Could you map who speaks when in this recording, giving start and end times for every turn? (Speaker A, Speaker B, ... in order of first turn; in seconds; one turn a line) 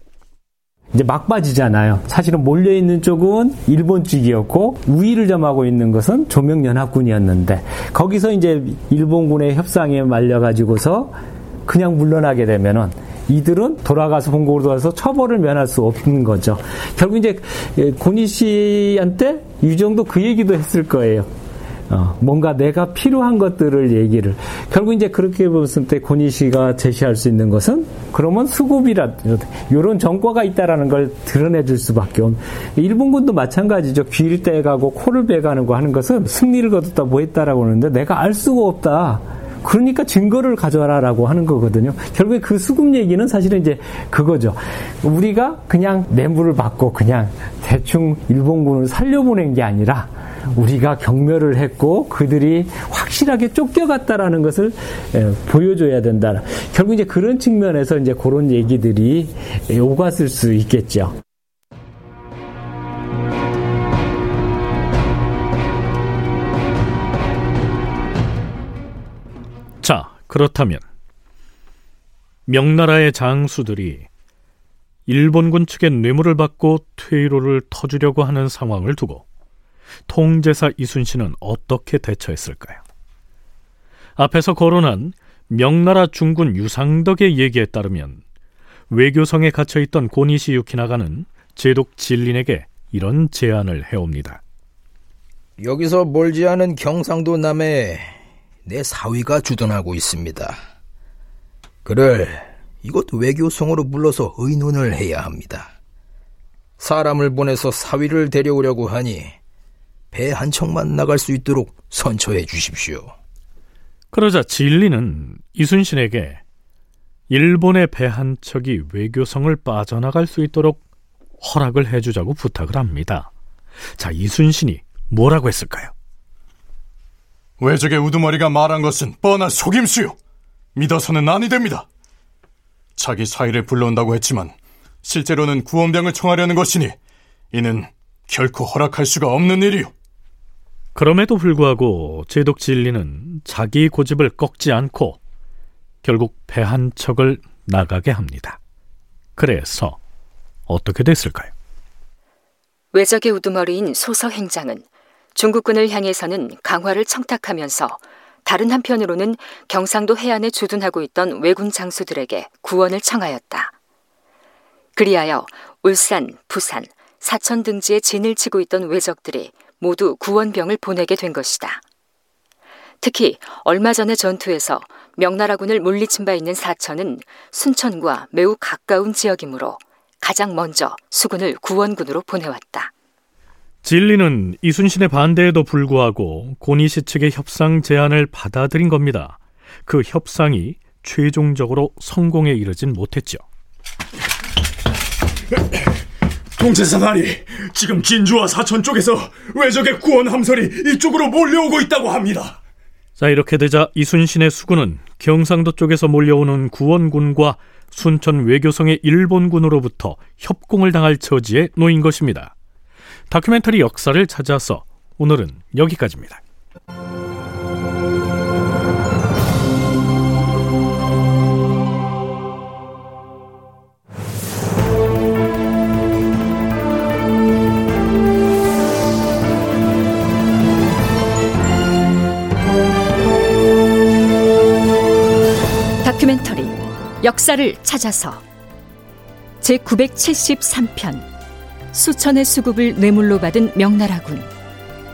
Speaker A: 0.9-11.1
Speaker A: 11.7-21.3
Speaker A: 21.9-61.1
Speaker B: 69.8-70.8
Speaker B: 72.5-74.1
Speaker B: 75.1-79.2
Speaker B: 80.1-82.8
Speaker B: 84.2-88.2
Speaker B: 88.9-94.4
Speaker C: 95.6-100.6
Speaker C: 101.8-105.7
Speaker C: 106.8-109.4
Speaker C: 110.1-113.1
Speaker B: 114.1-116.4
Speaker B: 117.3-120.8
Speaker B: 121.4-123.3
Speaker B: 124.0-125.9
Speaker D: 127.6-130.1
Speaker D: 130.8-131.8
Speaker D: 133.0-134.5
Speaker D: 135.1-136.9
Speaker D: 137.5-139.9
Speaker B: 140.9-145.2
Speaker B: 146.0-148.6
Speaker B: 149.4-150.0
Speaker B: 150.7-151.5
Speaker E: 152.9-154.8
Speaker E: 155.4-163.7
Speaker E: 165.0-171.8
Speaker E: 173.0-182.9
Speaker B: 183.8-193.4
Speaker F: 196.8-202.5
Speaker B: 203.2-212.5
Speaker B: 213.3-216.4
Speaker E: 236.0-238.4
Speaker E: 239.6-241.3
Speaker E: 241.9-244.5